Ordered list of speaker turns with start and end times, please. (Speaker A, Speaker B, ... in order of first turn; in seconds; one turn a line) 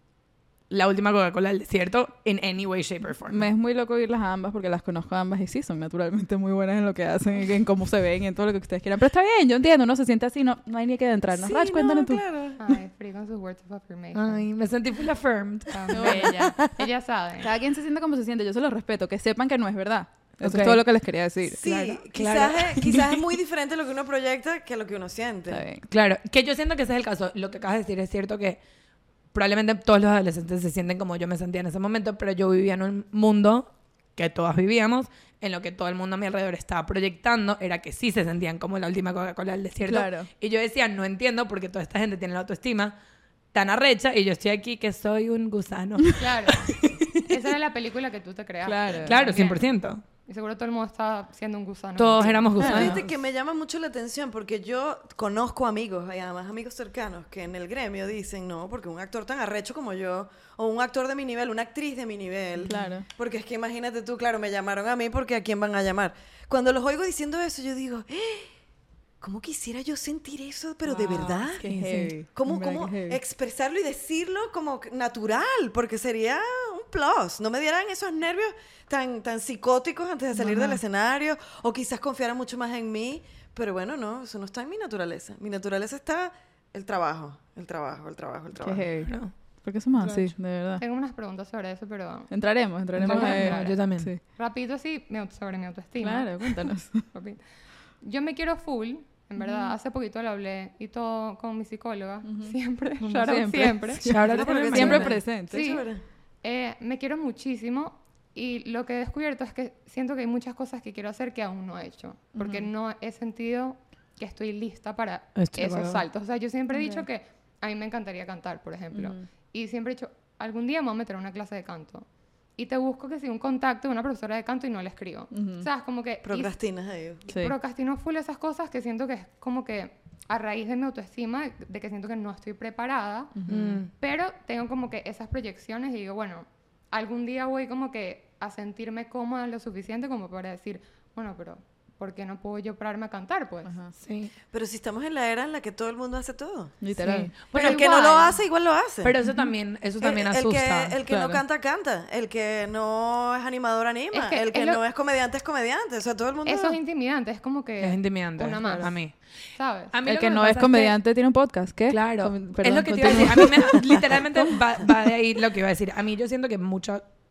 Speaker A: 0.7-3.5
Speaker B: 3.3-12.2
Speaker C: 11.3-12.6
Speaker D: 12.6-14.5
Speaker A: 14.1-16.2
Speaker D: 15.7-17.5
Speaker B: 15.9-16.6
Speaker C: 16.1-16.7
Speaker B: 17.4-22.0
Speaker A: 20.4-20.8
Speaker C: 21.5-25.6
Speaker A: 22.1-23.2
Speaker B: 25.5-25.9
Speaker A: 25.9-28.6
Speaker A: 29.3-42.9
Speaker B: 39.9-40.3
Speaker A: 43.5-47.3
Speaker D: 46.2-52.9
Speaker B: 48.6-49.4
Speaker A: 49.0-50.0
Speaker A: 52.0-53.1
Speaker B: 52.6-53.0
Speaker C: 52.6-68.5
Speaker B: 62.6-63.0
Speaker C: 69.2-71.8
Speaker A: 70.9-72.1
Speaker B: 71.6-73.2
Speaker C: 72.3-88.9
Speaker B: 80.4-80.8
Speaker B: 88.6-90.8
Speaker A: 89.0-89.3
Speaker A: 90.0-90.3
Speaker D: 90.8-104.2
Speaker B: 92.3-94.2
Speaker A: 93.0-94.1
Speaker B: 96.0-97.0
Speaker B: 99.4-99.8
Speaker B: 102.2-105.6
Speaker A: 104.0-105.2
Speaker C: 104.3-106.0
Speaker D: 104.8-105.9
Speaker D: 106.4-126.5
Speaker B: 112.4-112.7
Speaker A: 115.3-116.0
Speaker B: 116.7-117.0
Speaker B: 118.9-119.2
Speaker B: 125.3-125.7
Speaker C: 126.2-127.3
Speaker B: 127.3-127.5
Speaker D: 127.3-133.3
Speaker B: 133.3-133.8
Speaker A: 133.5-133.9
Speaker D: 133.9-143.7
Speaker B: 143.6-143.9
Speaker A: 144.0-144.3
Speaker C: 144.5-149.1
Speaker B: 146.8-147.3
Speaker D: 147.0-148.4
Speaker A: 149.0-151.0
Speaker B: 149.2-149.5
Speaker C: 150.0-156.8
Speaker B: 151.1-151.4
Speaker D: 154.1-154.8
Speaker D: 156.4-159.9
Speaker A: 157.8-161.0
Speaker B: 158.6-158.9
Speaker B: 160.0-164.5
Speaker A: 161.9-167.1